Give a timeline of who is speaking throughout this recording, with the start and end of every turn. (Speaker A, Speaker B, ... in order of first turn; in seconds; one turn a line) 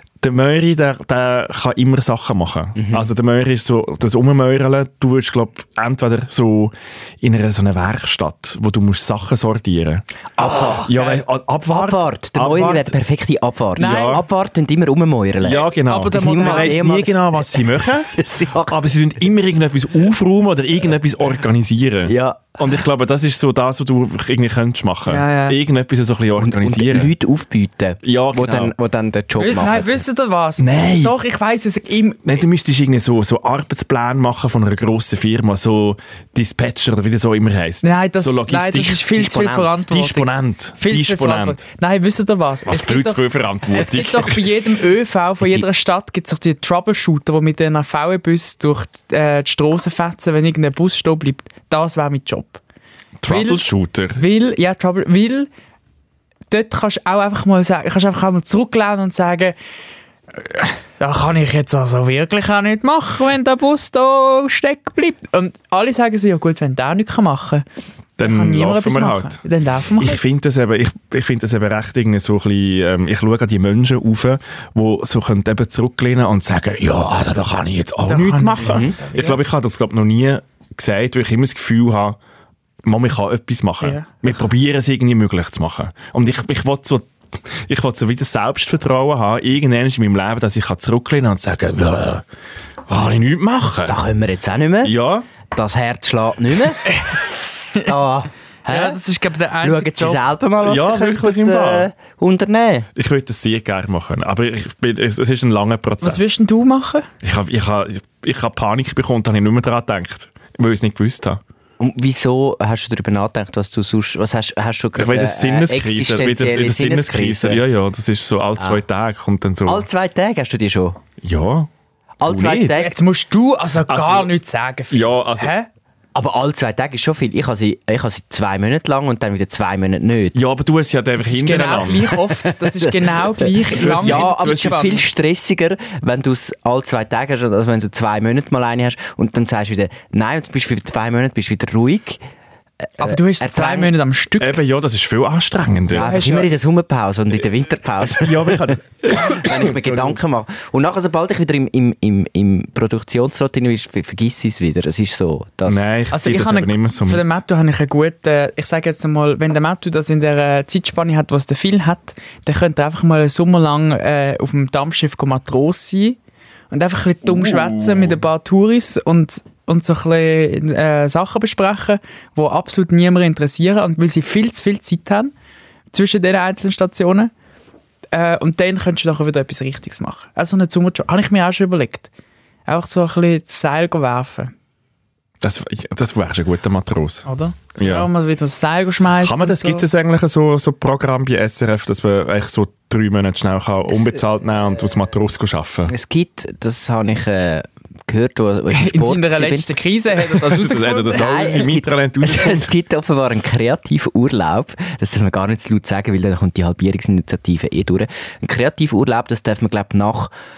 Speaker A: 0.2-13.0
Speaker B: 2.8-3.1
Speaker B: 10.4-10.9
Speaker C: 10.4-11.1
Speaker B: 11.7-18.8
Speaker A: 13.8-14.2
Speaker C: 13.8-14.2
Speaker A: 15.4-27.1
Speaker C: 15.9-16.8
Speaker B: 22.1-22.6
Speaker C: 25.1-25.6
Speaker B: 26.4-30.0
Speaker A: 28.0-28.7
Speaker C: 29.4-32.2
Speaker A: 30.6-31.1
Speaker A: 32.2-39.1
Speaker C: 37.8-40.3
Speaker B: 39.1-39.8
Speaker A: 39.9-41.6
Speaker C: 40.8-52.6
Speaker A: 42.7-44.7
Speaker A: 53.2-54.2
Speaker C: 53.3-55.5
Speaker C: 56.5-59.5
Speaker C: 60.3-67.7
Speaker A: 68.2-69.4
Speaker C: 68.2-70.2
Speaker A: 70.0-82.2
Speaker C: 78.1-79.4
Speaker B: 78.6-78.9
Speaker A: 82.8-92.2
Speaker C: 83.8-84.2
Speaker A: 92.9-94.0
Speaker B: 93.9-94.9
Speaker A: 94.8-95.3
Speaker B: 95.5-96.8
Speaker C: 96.9-97.2
Speaker B: 97.8-99.0
Speaker C: 98.7-100.2
Speaker B: 99.6-102.9
Speaker A: 100.6-101.9
Speaker A: 103.0-106.4
Speaker C: 106.0-107.1
Speaker A: 107.2-111.4
Speaker B: 111.8-117.6
Speaker A: 115.0-119.8
Speaker B: 119.7-121.0
Speaker A: 121.2-121.7
Speaker B: 122.2-123.0
Speaker A: 122.2-122.9
Speaker C: 122.8-125.7
Speaker A: 123.9-124.3
Speaker A: 124.9-125.5
Speaker B: 126.1-130.4
Speaker A: 130.3-132.2
Speaker C: 131.2-135.0
Speaker B: 132.4-142.2
Speaker A: 133.7-135.0
Speaker B: 142.8-143.9
Speaker C: 143.0-144.6
Speaker A: 144.4-146.1
Speaker B: 145.9-155.8
Speaker C: 146.0-146.5
Speaker A: 148.2-150.2
Speaker A: 155.7-157.4
Speaker C: 156.1-166.2
Speaker C: 166.7-175.3
Speaker A: 167.3-168.2
Speaker C: 175.9-177.3
Speaker C: 178.1-182.1
Speaker C: 182.7-184.5
Speaker A: 185.4-187.2
Speaker C: 187.2-189.8
Speaker A: 187.8-188.1
Speaker A: 189.2-195.9
Speaker B: 195.9-199.7
Speaker C: 198.7-201.7
Speaker A: 200.2-202.7
Speaker B: 201.1-210.3